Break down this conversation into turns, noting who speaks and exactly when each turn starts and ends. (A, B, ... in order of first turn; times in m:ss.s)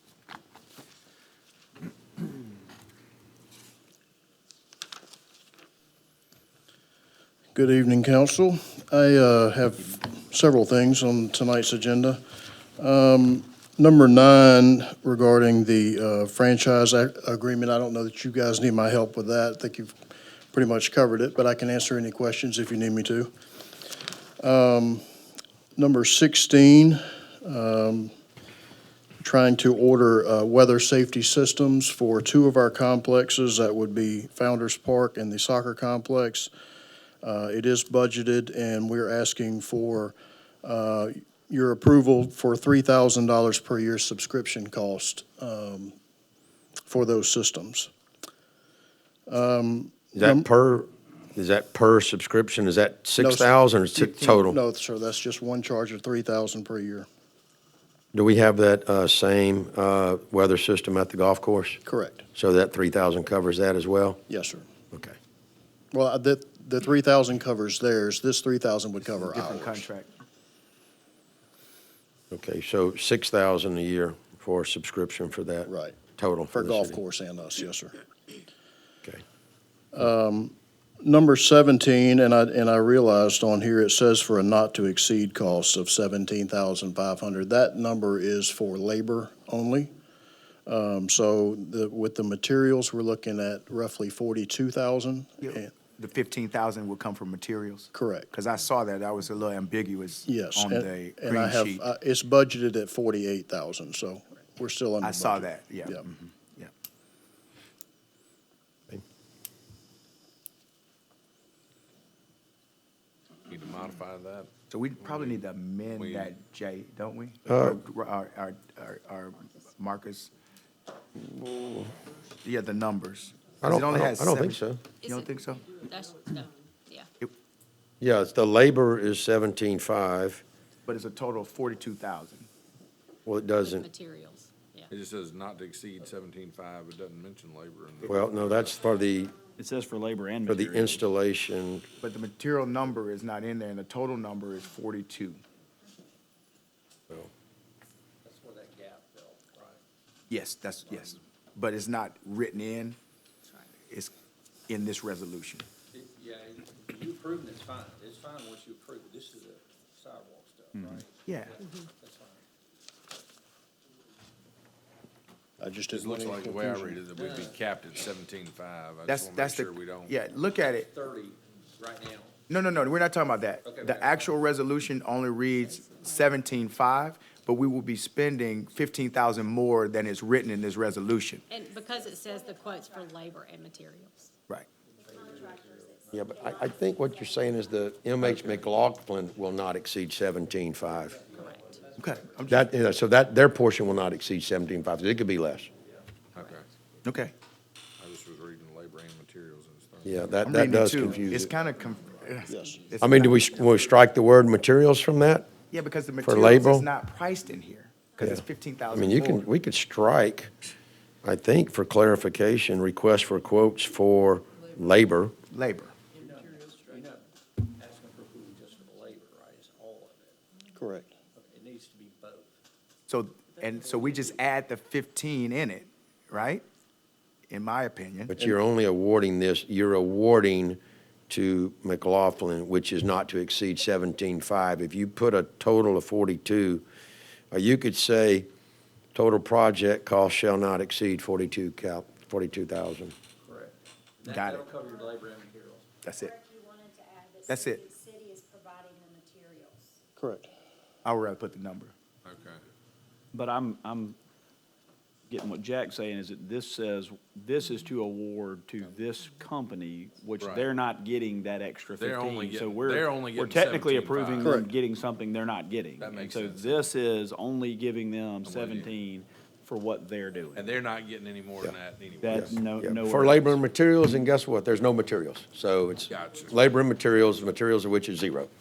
0:07.5-0:12.2 A
0:12.8-0:20.0 A
0:20.5-0:23.3 A
0:24.4-0:25.0 A
0:25.8-0:28.1 A
0:29.2-0:36.5 A
0:37.2-0:46.0 A
0:46.9-0:47.9 A
0:49.3-0:50.5 A
0:50.2-0:54.6 B
0:53.2-0:53.5 A
0:54.0-0:54.4 C
0:54.5-0:57.1 A
0:58.1-1:01.8 B
1:01.8-1:02.2 A
1:02.4-1:04.2 B
1:04.3-1:04.7 A
1:04.9-1:05.2 B
1:05.9-1:09.9 A
1:09.0-1:10.1 C
1:12.3-1:17.0 B
1:15.7-1:16.0 A
1:16.5-1:18.0 A
1:19.9-1:29.9 A
1:30.7-1:35.7 A
1:35.4-1:41.8 C
1:37.9-1:38.3 A
1:40.3-1:46.0 A
1:45.0-1:46.7 C
1:53.5-1:55.4 D
1:54.7-2:00.3 C
1:56.0-1:56.4 D
1:57.5-1:57.8 B
2:01.2-2:01.9 B
2:02.4-2:05.7 C
2:03.6-2:04.8 B
2:05.0-2:07.1 E
2:08.0-2:10.4 B
2:10.9-2:12.5 C
2:13.3-2:13.9 B
2:13.6-2:14.9 E
2:14.9-2:18.8 D
2:18.1-2:19.3 B
2:19.0-2:19.6 F
2:19.6-2:21.0 G
2:20.5-2:21.9 B
2:22.0-2:25.4 C
2:28.2-2:29.8 H
2:30.3-2:33.0 C
2:33.9-2:34.1 C
2:34.7-2:35.7 C
2:35.9-2:42.4 H
2:41.3-2:41.6 C
2:45.6-2:47.0 A
2:45.9-2:50.2 D
2:47.1-2:47.6 H
2:49.0-2:50.9 C
2:50.6-2:52.4 H
2:52.5-3:01.4 C
2:53.6-2:54.4 H
2:55.8-2:56.2 E
3:01.5-3:04.3 E
3:02.0-3:03.3 F
3:04.9-3:06.5 H
3:05.1-3:07.6 F
3:06.1-3:11.2 B
3:08.3-3:08.6 D
3:11.0-3:12.7 H
3:11.3-3:11.6 E
3:12.0-3:12.7 C
3:12.5-3:15.7 B
3:16.4-3:16.7 D
3:17.0-3:17.3 C
3:18.0-3:20.4 D
3:20.0-3:21.5 B
3:20.4-3:23.6 C
3:22.5-3:22.8 A
3:23.0-3:25.5 B
3:25.7-3:29.5 C
3:26.2-3:26.9 B
3:28.9-3:30.5 B
3:31.2-3:35.4 B
3:35.5-3:36.0 C
3:36.2-3:40.4 H
3:40.8-3:41.1 A
3:41.4-3:42.5 H
3:43.1-3:46.6 C
3:47.5-3:48.3 C
3:48.3-3:56.8 B
3:57.5-3:58.5 B
3:59.2-4:03.1 B
4:03.4-4:05.9 H
4:04.2-4:04.7 C
4:06.0-4:06.4 C
4:06.1-4:10.0 F
4:07.5-4:07.8 C
4:10.2-4:10.5 A
4:11.0-4:11.9 C
4:12.3-4:12.6 D
4:13.3-4:14.2 G
4:15.3-4:30.8 G
4:20.4-4:20.7 D
4:22.0-4:24.5 D
4:24.4-4:24.7 A
4:26.0-4:26.9 D
4:28.4-4:28.9 D
4:30.5-4:32.6 D
4:32.2-4:33.6 G
4:32.3-4:38.5 B
4:36.1-4:36.6 D